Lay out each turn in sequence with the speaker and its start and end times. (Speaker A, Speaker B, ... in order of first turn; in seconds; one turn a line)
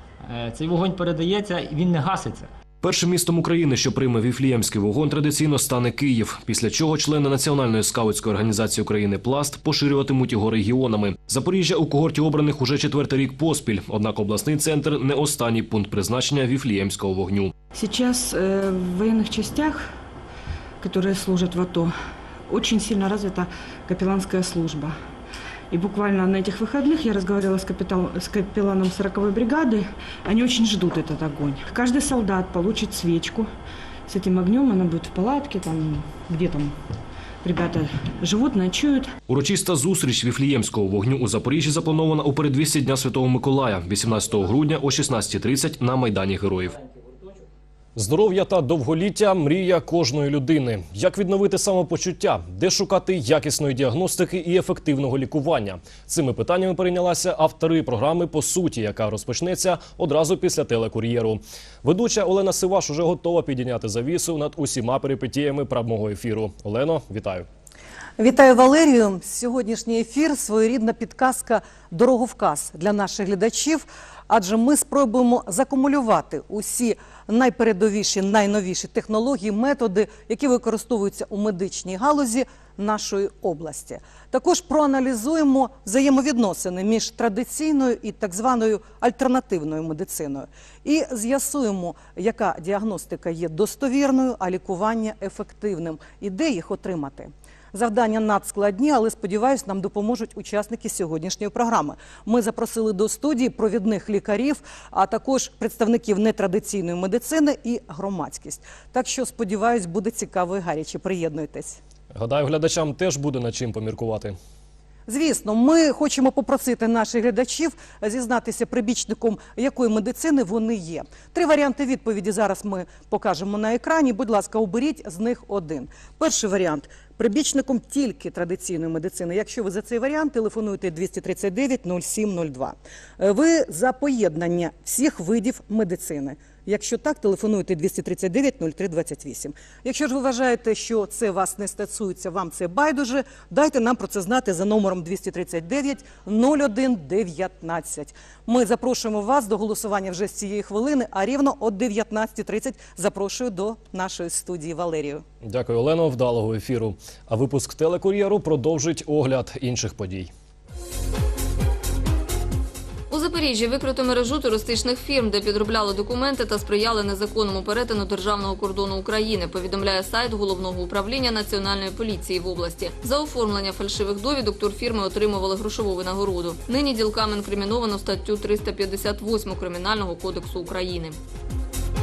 Speaker A: 0.3-2.5
Speaker B: 2.8-17.5
Speaker C: 17.7-19.8
Speaker C: 20.8-21.9
Speaker C: 22.5-24.9
Speaker C: 25.7-33.5
Speaker C: 34.1-36.7
Speaker C: 37.4-39.1
Speaker B: 39.3-46.8
Speaker B: 48.0-67.5
Speaker D: 68.2-111.8
Speaker B: 112.1-114.3
Speaker D: 115.1-155.2
Speaker B: 155.4-160.3
Speaker E: 163.1-181.2